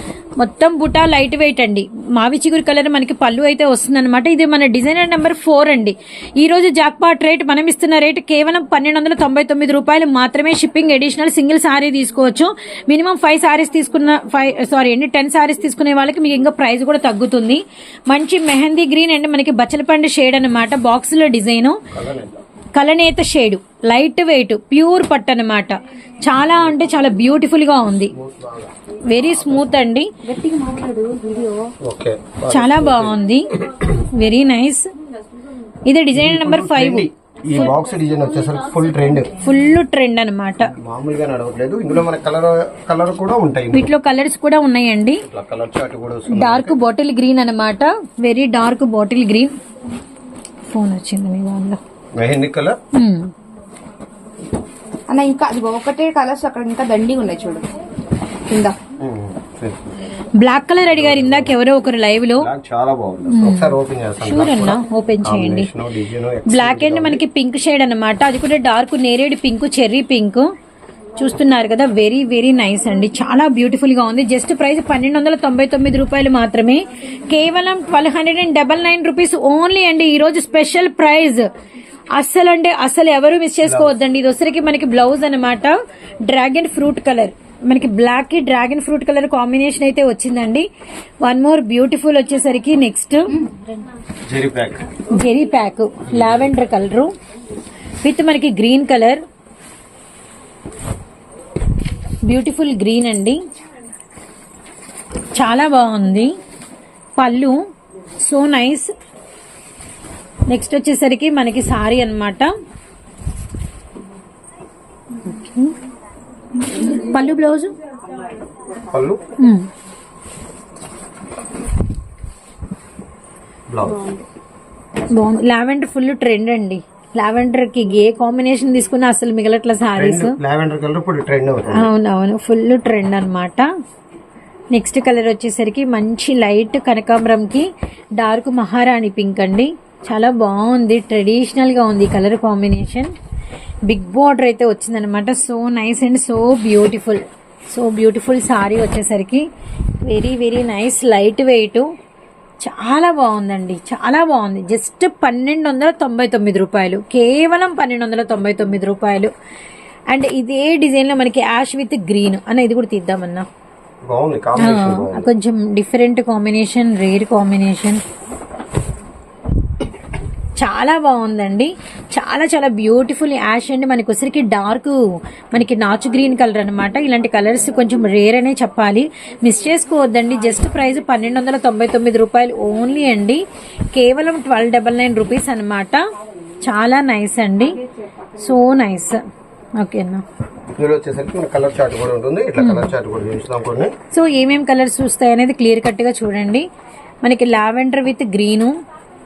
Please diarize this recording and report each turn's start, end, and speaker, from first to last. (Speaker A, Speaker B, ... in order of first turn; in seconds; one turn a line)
Speaker A: 0.4-21.8
Speaker B: 21.9-22.4
Speaker A: 22.7-28.1
Speaker B: 28.1-29.7
Speaker A: 29.1-30.1
Speaker C: 30.2-31.7
Speaker B: 31.8-33.2
Speaker A: 32.5-34.9
Speaker A: 35.8-37.1
Speaker B: 36.1-39.4
Speaker A: 39.4-40.7
Speaker B: 40.6-43.9
Speaker A: 43.7-45.2
Speaker B: 45.2-46.8
Speaker A: 46.3-49.5
Speaker A: 50.7-51.8
Speaker B: 52.1-52.8
Speaker A: 52.9-53.3
Speaker C: 55.1-57.7
Speaker C: 58.5-58.8
Speaker B: 59.0-60.1
Speaker A: 60.4-62.5
Speaker B: 60.9-61.5
Speaker B: 62.4-67.2
Speaker A: 63.3-65.7
Speaker A: 66.5-70.5
Speaker A: 71.2-81.5
Speaker A: 82.1-90.7
Speaker B: 83.6-84.0
Speaker A: 91.2-93.5
Speaker B: 94.3-94.9
Speaker A: 95.1-97.1
Speaker B: 96.1-96.7
Speaker A: 98.0-99.2
Speaker A: 102.3-103.4
Speaker A: 105.3-106.3
Speaker A: 107.2-107.6
Speaker A: 108.2-108.9
Speaker A: 110.5-112.5
Speaker A: 115.2-115.7
Speaker A: 116.6-117.7
Speaker B: 118.8-119.2
Speaker A: 119.4-119.7
Speaker B: 123.7-124.1
Speaker C: 124.0-124.2
Speaker A: 125.1-130.4
Speaker B: 130.0-131.9
Speaker A: 131.7-133.7
Speaker A: 134.7-143.1
Speaker A: 143.9-149.5
Speaker A: 150.0-151.9
Speaker A: 152.6-159.3
Speaker A: 160.1-163.5
Speaker B: 164.0-165.3
Speaker A: 164.6-168.0
Speaker A: 170.6-175.0
Speaker A: 175.5-186.0
Speaker A: 186.6-187.8
Speaker A: 188.3-189.2
Speaker A: 189.8-190.2
Speaker B: 190.8-193.9
Speaker A: 192.6-192.9
Speaker A: 194.1-196.7
Speaker A: 197.2-198.8